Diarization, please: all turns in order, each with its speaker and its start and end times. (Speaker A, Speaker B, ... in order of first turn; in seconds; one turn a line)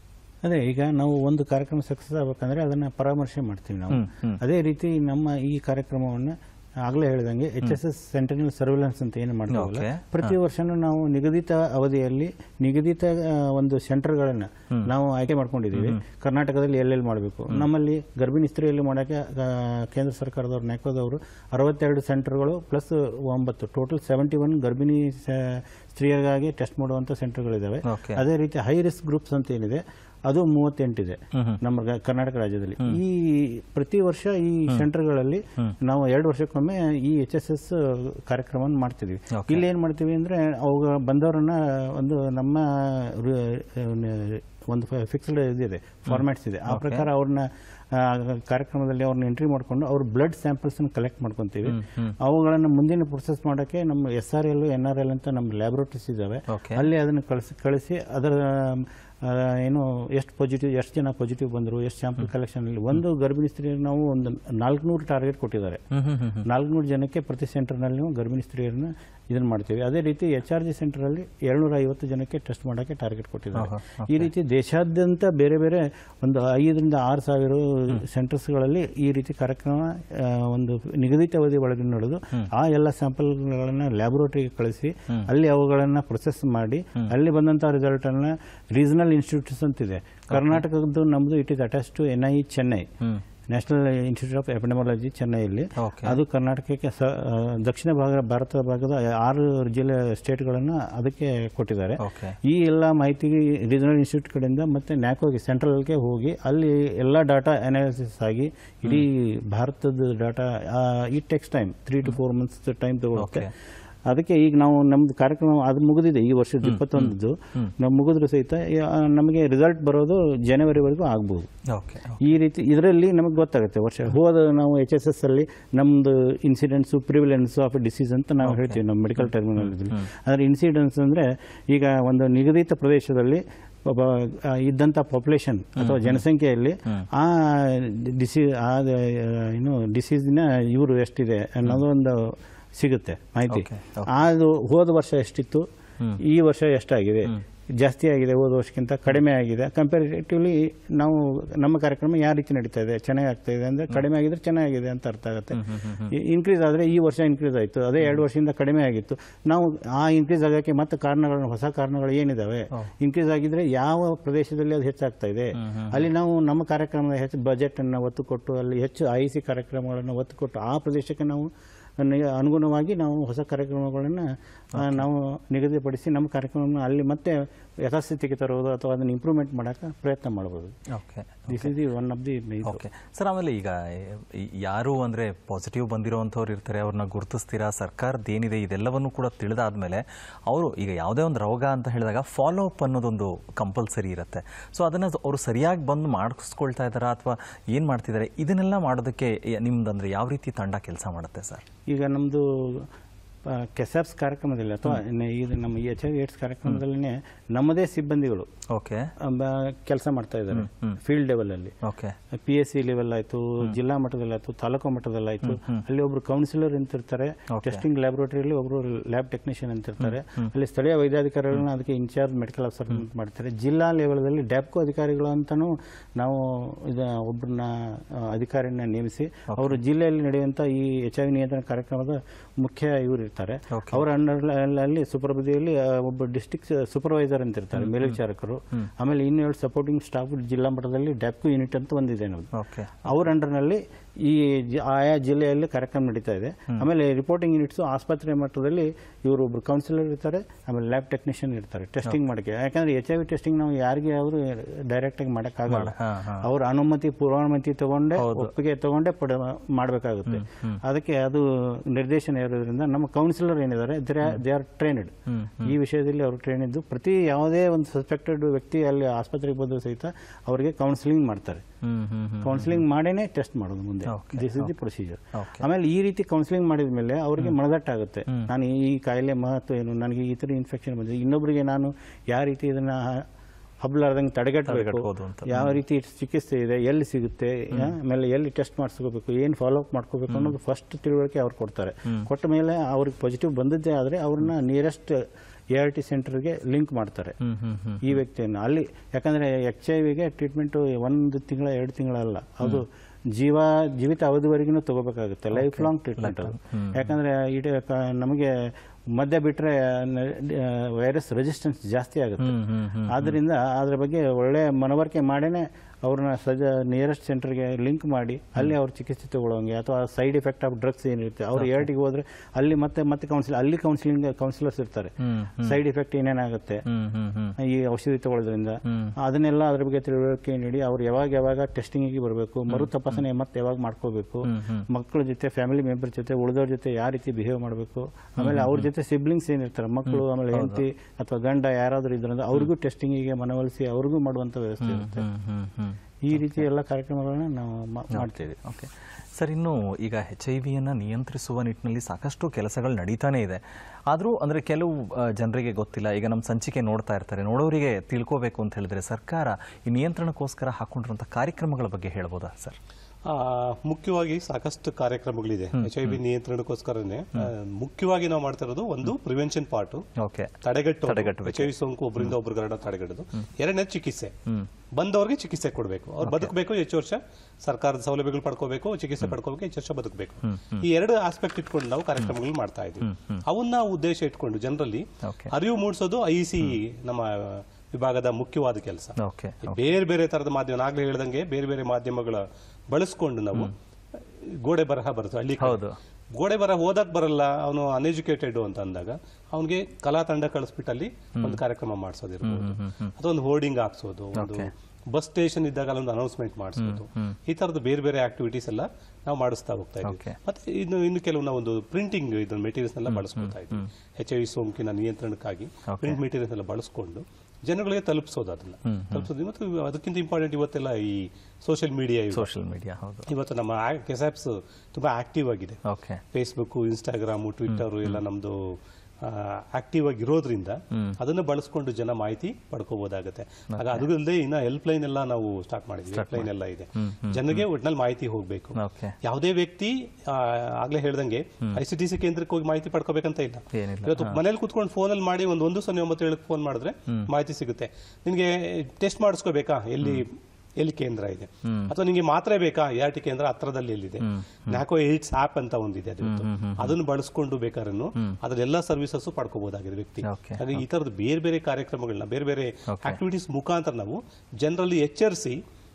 Speaker A: 0.4-65.8
Speaker B: 3.9-4.4
Speaker B: 9.5-10.3
Speaker B: 15.7-16.0
Speaker B: 27.9-28.2
Speaker B: 31.3-31.6
Speaker B: 39.3-39.6
Speaker B: 46.1-47.1
Speaker B: 51.6-52.1
Speaker B: 56.5-56.9
Speaker B: 65.9-66.4
Speaker A: 66.4-92.9
Speaker B: 73.5-74.3
Speaker B: 90.3-90.6
Speaker A: 93.5-113.5
Speaker B: 95.8-96.2
Speaker B: 102.0-102.3
Speaker B: 113.2-113.5
Speaker A: 114.1-121.5
Speaker B: 116.6-117.7
Speaker B: 121.7-122.2
Speaker A: 122.2-145.7
Speaker B: 128.4-130.1
Speaker B: 135.8-136.2
Speaker B: 143.5-144.1
Speaker A: 146.2-180.7
Speaker B: 155.5-156.1
Speaker B: 165.6-166.1
Speaker B: 174.8-175.1
Speaker B: 180.9-181.8
Speaker A: 181.5-182.8
Speaker B: 182.6-201.6
Speaker A: 201.9-202.9
Speaker A: 203.4-208.5
Speaker B: 208.7-209.1
Speaker A: 209.2-211.8
Speaker B: 210.5-211.0
Speaker B: 211.8-212.2
Speaker A: 212.3-242.5
Speaker B: 215.4-215.8
Speaker B: 217.5-217.8
Speaker B: 220.0-220.5
Speaker B: 229.5-229.8
Speaker B: 233.7-234.0
Speaker B: 237.7-238.2
Speaker B: 242.5-243.0
Speaker A: 243.0-271.6
Speaker B: 255.7-256.4
Speaker B: 258.1-258.5
Speaker B: 260.3-260.8
Speaker B: 265.3-265.7
Speaker B: 271.8-272.9
Speaker A: 272.4-283.2
Speaker B: 274.1-274.7
Speaker B: 275.3-275.6
Speaker A: 283.8-297.4
Speaker B: 284.6-285.8
Speaker B: 290.3-290.5
Speaker B: 297.4-298.2
Speaker A: 298.0-326.8
Speaker B: 305.5-307.1
Speaker B: 312.4-313.4
Speaker B: 321.5-321.9
Speaker B: 325.2-325.8
Speaker B: 326.9-327.5
Speaker A: 327.6-345.2
Speaker B: 328.9-329.1
Speaker B: 332.7-333.2
Speaker B: 334.4-334.9
Speaker B: 338.4-338.9
Speaker B: 340.1-340.8
Speaker B: 344.8-346.7
Speaker A: 346.2-348.6
Speaker B: 348.1-362.8
Speaker C: 363.2-370.0
Speaker B: 365.7-366.2
Speaker B: 370.1-372.3
Speaker C: 370.6-374.4
Speaker C: 374.9-393.7
Speaker B: 376.2-376.5
Speaker B: 380.4-380.9
Speaker B: 383.0-383.4
Speaker B: 385.2-385.5
Speaker B: 389.2-389.8
Speaker C: 394.4-395.8
Speaker B: 395.6-396.0
Speaker C: 396.3-422.5
Speaker B: 402.4-403.1
Speaker B: 404.4-404.7
Speaker B: 406.8-407.4
Speaker B: 410.0-410.4
Speaker B: 413.1-413.9
Speaker B: 415.9-416.2
Speaker B: 418.9-419.3
Speaker B: 422.3-423.3
Speaker C: 423.3-425.8
Speaker B: 425.9-426.2
Speaker C: 426.3-465.6
Speaker B: 427.7-428.2
Speaker B: 430.9-431.2
Speaker B: 433.7-434.1
Speaker B: 436.1-437.6
Speaker B: 438.8-439.1
Speaker B: 443.7-444.4
Speaker B: 451.6-451.9
Speaker B: 454.2-454.8
Speaker B: 456.2-457.0
Speaker B: 460.2-460.8
Speaker B: 462.9-463.2